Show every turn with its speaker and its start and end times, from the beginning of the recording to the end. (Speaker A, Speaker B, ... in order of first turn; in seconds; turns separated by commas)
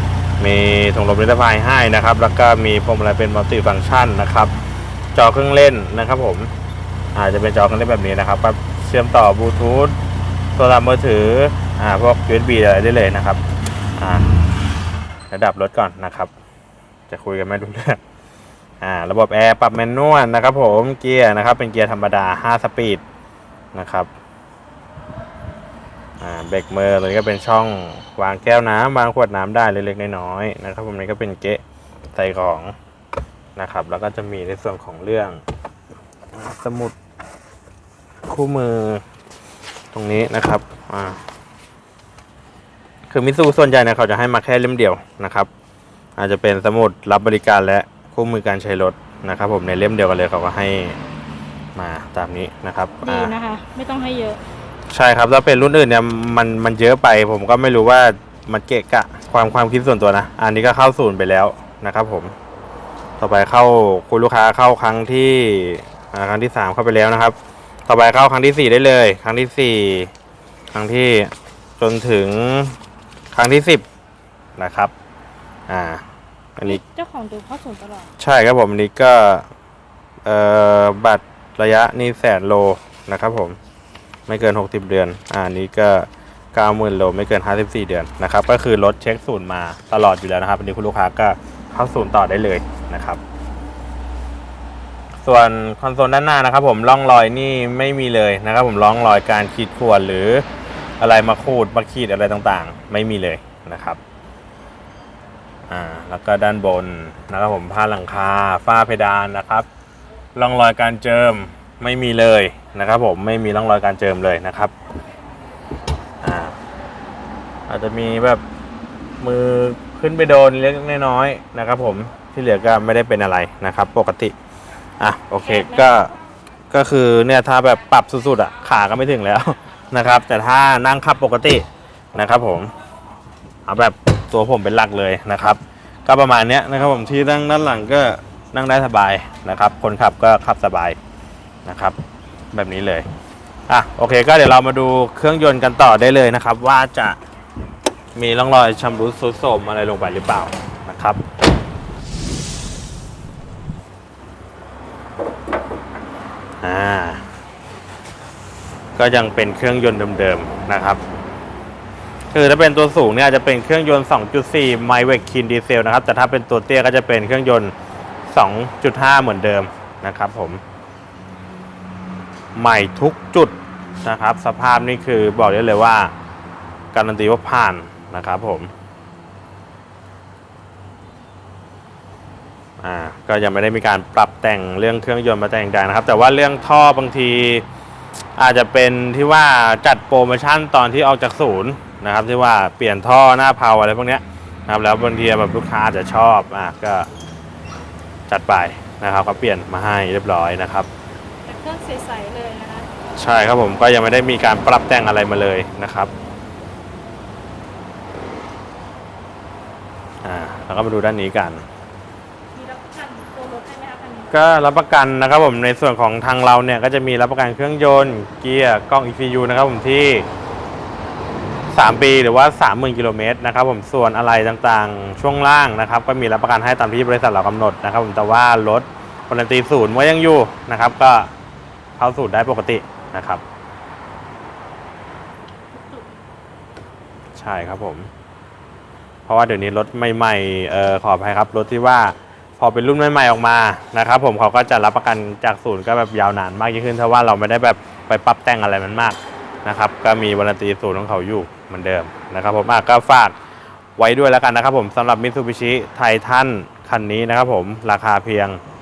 Speaker A: 0.4-4.5, Speaker A: 5.1-6.5, Speaker A: 7.1-9.9, Speaker A: 10.6-13.4, Speaker A: 14.0-14.3, Speaker A: 15.3-16.3, Speaker A: 17.1-18.0, Speaker A: 18.8-23.0, Speaker A: 23.7-24.1, Speaker A: 26.2-31.6, Speaker A: 32.1-32.7, Speaker A: 33.5-35.4, Speaker A: 36.3-36.9, Speaker A: 38.3-39.0, Speaker A: 39.9-41.2, Speaker A: 43.1-45.5, Speaker A: 46.2-51.0, Speaker A: 51.8-53.3, Speaker B: 53.0-54.4, Speaker A: 54.9-62.3, Speaker A: 63.2-67.3, Speaker A: 67.9-70.1, Speaker A: 70.7-72.8, Speaker A: 73.3-73.8, Speaker A: 74.6-74.9, Speaker A: 75.7-76.0, Speaker B: 76.6-78.1, Speaker A: 78.2-79.5, Speaker A: 80.2-83.6, Speaker A: 84.3-93.2, Speaker A: 95.2-100.5, Speaker A: 101.0-104.0, Speaker A: 105.7-109.7, Speaker A: 110.3-114.7, Speaker A: 116.2-116.5, Speaker A: 117.7-118.4, Speaker A: 119.2-124.3, Speaker A: 125.0-126.1, Speaker B: 125.4-126.0, Speaker A: 126.7-132.7, Speaker A: 133.7-141.0, Speaker A: 141.6-142.0, Speaker A: 142.5-143.1, Speaker A: 143.7-147.2, Speaker A: 148.1-151.2, Speaker A: 156.6-157.2, Speaker A: 159.0-161.0, Speaker A: 162.3-167.7, Speaker A: 168.3-170.6, Speaker A: 172.5-176.1, Speaker A: 176.9-178.7, Speaker A: 182.8-187.7, Speaker A: 188.4-197.1, Speaker A: 198.3-200.9, Speaker B: 201.4-202.9, Speaker A: 203.2-206.1, Speaker A: 210.2-211.6, Speaker B: 212.5-214.4, Speaker A: 214.3-220.3, Speaker A: 221.7-231.3, Speaker A: 232.0-233.4, Speaker B: 235.8-236.0, Speaker A: 237.3-238.1, Speaker A: 239.3-253.3, Speaker A: 254.0-258.6